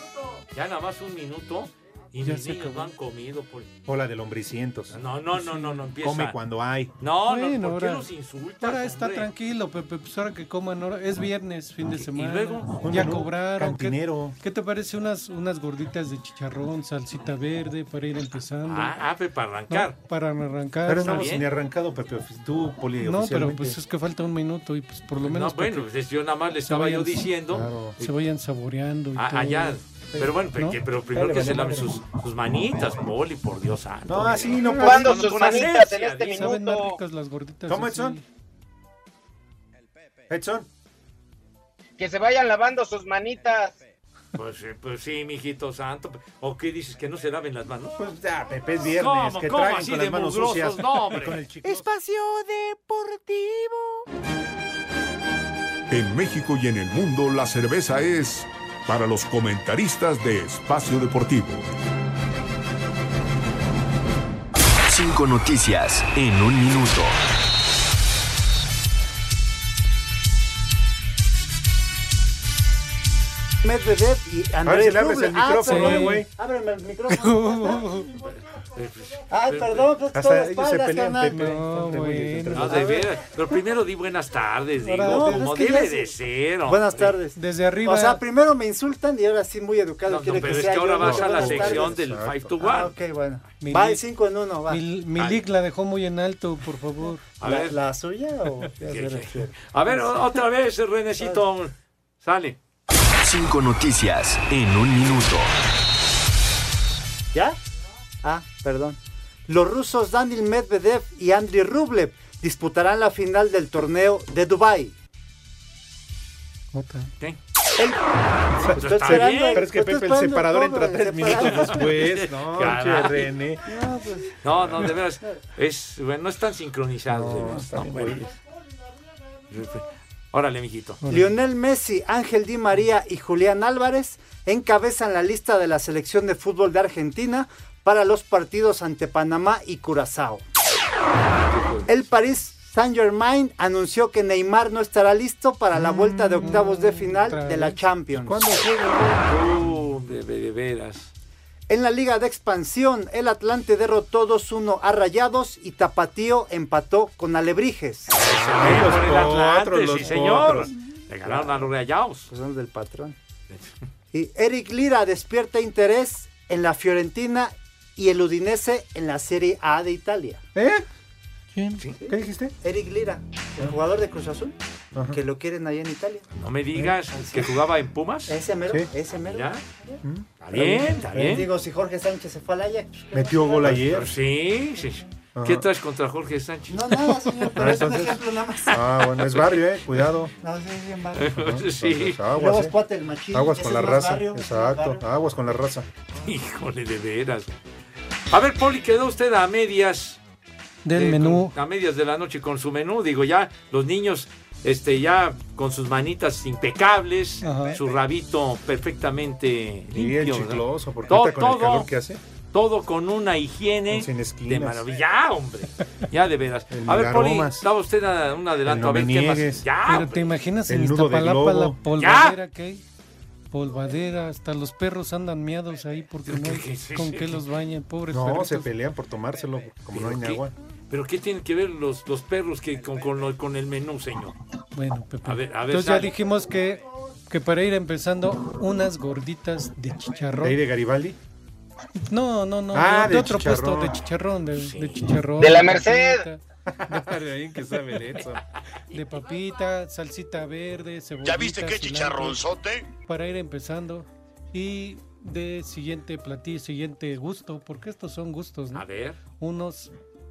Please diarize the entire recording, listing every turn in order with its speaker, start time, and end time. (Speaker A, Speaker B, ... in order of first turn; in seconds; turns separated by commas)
Speaker A: 0.5-3.7, Speaker B: 2.2-2.9, Speaker C: 3.9-5.0, Speaker A: 4.9-6.3, Speaker B: 5.4-5.8, Speaker C: 6.0-6.9, Speaker A: 7.0-9.3, Speaker B: 7.3-8.1, Speaker B: 8.6-18.9, Speaker A: 11.9-13.1, Speaker C: 12.8-14.4, Speaker A: 18.7-20.0, Speaker B: 19.7-21.3, Speaker C: 20.9-23.8, Speaker A: 21.0-21.5, Speaker B: 23.0-25.9, Speaker A: 25.2-28.1, Speaker B: 26.6-27.3, Speaker C: 27.5-28.0, Speaker B: 28.0-29.8, Speaker A: 29.2-36.4, Speaker C: 31.1-32.0, Speaker C: 34.1-35.3, Speaker B: 34.7-38.2, Speaker D: 34.8-37.0, Speaker C: 37.7-38.2, Speaker C: 40.3-40.7, Speaker D: 42.0-43.8, Speaker A: 44.4-48.0, Speaker C: 48.0-51.9, Speaker A: 48.8-51.4, Speaker E: 51.6-54.1, Speaker F: 55.9-61.7, Speaker E: 73.6-78.0, Speaker C: 74.7-76.3, Speaker B: 75.7-76.2, Speaker B: 77.1-78.1, Speaker A: 78.7-79.9, Speaker E: 79.3-81.4, Speaker C: 80.1-83.0, Speaker B: 81.3-82.7, Speaker A: 82.5-87.2, Speaker E: 82.7-83.0, Speaker B: 84.8-85.5, Speaker E: 85.1-86.1, Speaker E: 86.7-92.0, Speaker B: 87.4-88.2, Speaker A: 90.1-92.9, Speaker C: 91.0-92.5, Speaker E: 92.6-94.8, Speaker B: 93.6-94.0, Speaker B: 94.7-97.2, Speaker A: 95.2-95.4, Speaker A: 97.4-97.8, Speaker E: 97.4-100.2, Speaker A: 98.8-102.6, Speaker G: 103.2-105.5, Speaker E: 108.2-115.0, Speaker B: 116.7-117.1, Speaker C: 118.6-123.7, Speaker E: 118.7-121.8, Speaker A: 118.8-119.7, Speaker A: 121.2-123.3, Speaker E: 123.7-124.4, Speaker A: 124.4-128.3, Speaker C: 124.6-124.9, Speaker C: 127.1-128.3, Speaker A: 129.5-131.0, Speaker B: 131.0-131.3, Speaker E: 131.1-140.5, Speaker A: 141.6-141.9, Speaker E: 141.9-149.2, Speaker C: 145.7-146.6, Speaker B: 146.3-147.8, Speaker C: 148.1-149.2, Speaker A: 149.3-151.1, Speaker E: 151.7-158.2, Speaker A: 158.1-162.3, Speaker C: 158.1-160.7, Speaker E: 161.3-161.6, Speaker E: 162.3-163.2, Speaker E: 164.1-170.4, Speaker C: 170.6-170.8, Speaker B: 171.6-171.8, Speaker E: 172.0-174.6, Speaker C: 172.1-172.6, Speaker E: 175.1-176.2, Speaker A: 176.4-178.4, Speaker E: 177.2-177.5, Speaker E: 178.3-180.0, Speaker A: 179.3-179.6, Speaker C: 180.0-181.4, Speaker A: 180.4-181.4, Speaker E: 181.2-183.9, Speaker C: 183.1-184.1, Speaker A: 183.7-187.1, Speaker C: 185.4-185.6, Speaker E: 186.7-188.8, Speaker C: 187.6-190.3, Speaker A: 189.2-189.6, Speaker E: 190.4-191.4, Speaker A: 191.2-192.2, Speaker C: 191.4-192.8, Speaker E: 192.3-195.0, Speaker C: 193.3-195.9, Speaker A: 196.1-197.6, Speaker A: 198.3-200.2, Speaker B: 200.8-201.6, Speaker A: 201.0-211.9, Speaker B: 207.4-207.8, Speaker C: 209.9-212.2, Speaker A: 212.5-220.3, Speaker C: 213.9-214.9, Speaker C: 216.7-217.6, Speaker C: 218.7-219.7, Speaker B: 219.9-222.8, Speaker C: 220.7-221.8, Speaker A: 222.0-222.4, Speaker B: 223.5-228.7, Speaker A: 226.3-227.4, Speaker C: 228.1-230.5, Speaker A: 229.9-234.4, Speaker B: 234.8-240.6, Speaker A: 235.3-236.1, Speaker C: 240.4-241.2, Speaker B: 242.1-247.1, Speaker C: 242.7-244.0, Speaker A: 244.6-245.0, Speaker D: 245.4-246.2, Speaker C: 246.7-248.4, Speaker B: 248.9-252.5, Speaker G: 251.2-252.9, Speaker B: 253.1-258.9, Speaker A: 258.7-259.2, Speaker B: 259.4-259.9